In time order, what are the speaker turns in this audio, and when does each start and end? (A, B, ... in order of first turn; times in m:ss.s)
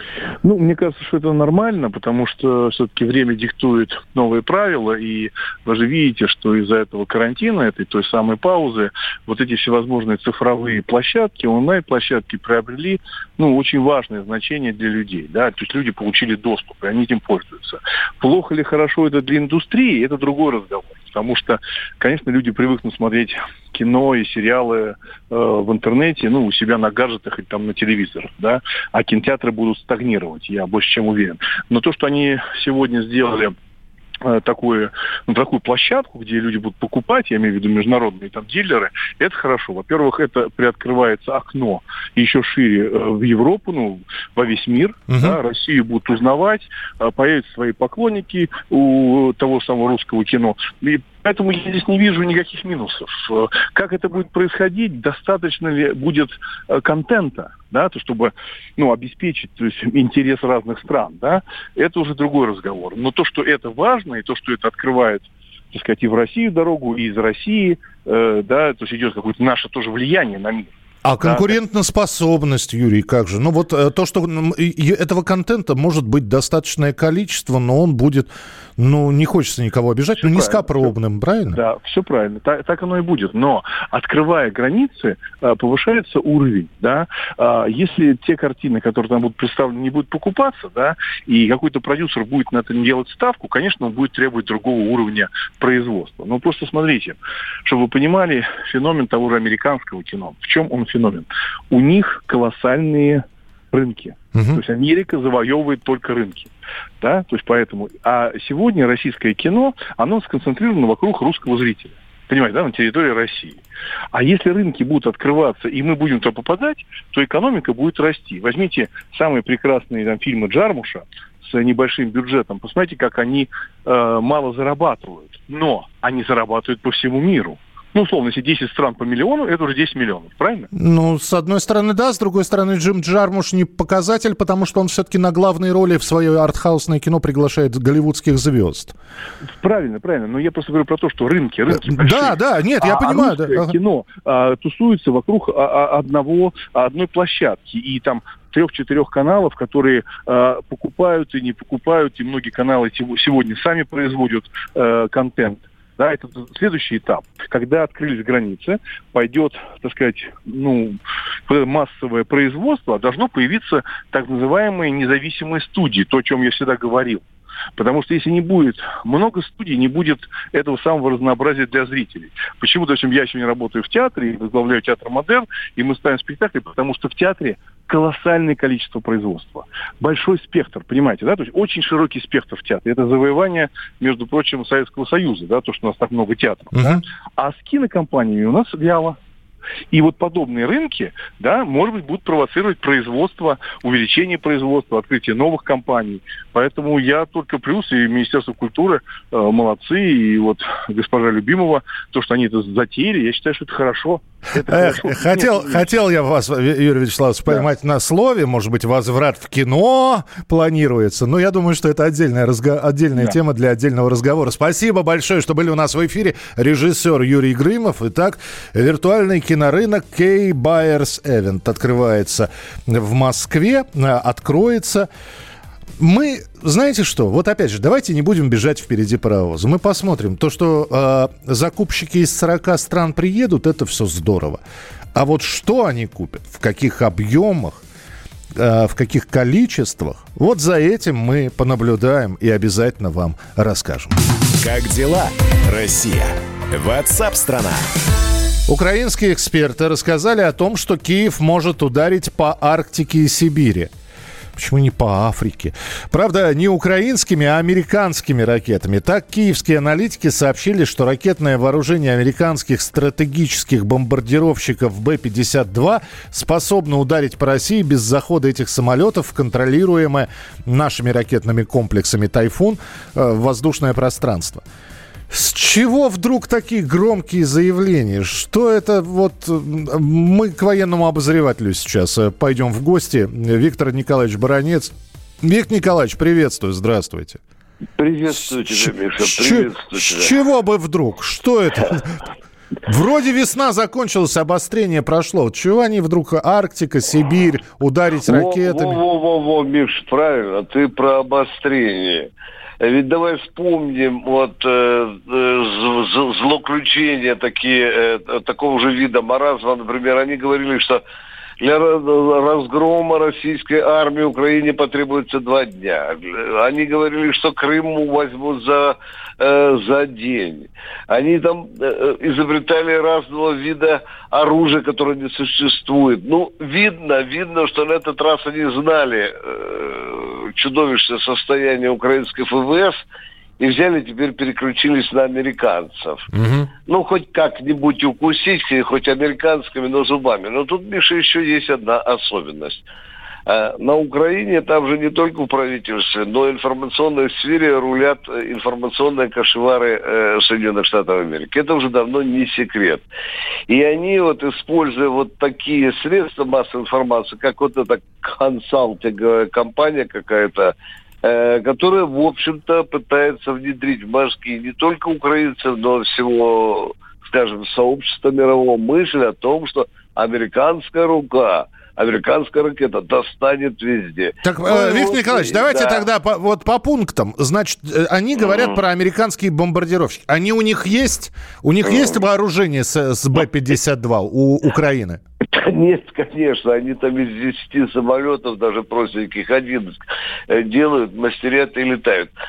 0:00.4-0:33.6 A
0:34.2-1:11.6 A
0:45.1-0:45.4 B
1:11.0-1:21.6 B
1:20.2-1:20.9 A
1:21.5-1:53.6 A
1:44.4-1:44.6 B
1:54.1-2:10.7 A
2:10.7-2:18.9 B
2:19.6-2:47.2 A
2:21.8-2:23.8 B
2:47.8-3:09.2 A
3:06.7-3:07.0 B
3:09.9-3:25.9 A
3:24.7-3:45.1 B
3:46.0-3:54.6 B
3:55.2-3:57.8 B
3:58.6-4:04.2 B
4:04.6-4:07.9 C
4:08.7-4:13.9 B
4:14.6-4:34.6 B
4:35.3-4:47.4 B
4:48.0-4:50.3 D
4:48.4-4:52.2 B
4:52.9-4:59.0 B
4:58.3-5:02.3 D
5:02.8-5:11.0 D
5:11.6-5:33.0 D
5:33.6-5:36.3 D
5:36.9-5:42.8 D
5:43.5-5:53.1 D
5:53.7-6:16.0 D
6:14.4-6:25.2 B
6:18.4-6:18.8 D
6:21.8-6:22.2 D
6:25.5-6:29.9 D
6:30.5-6:32.3 D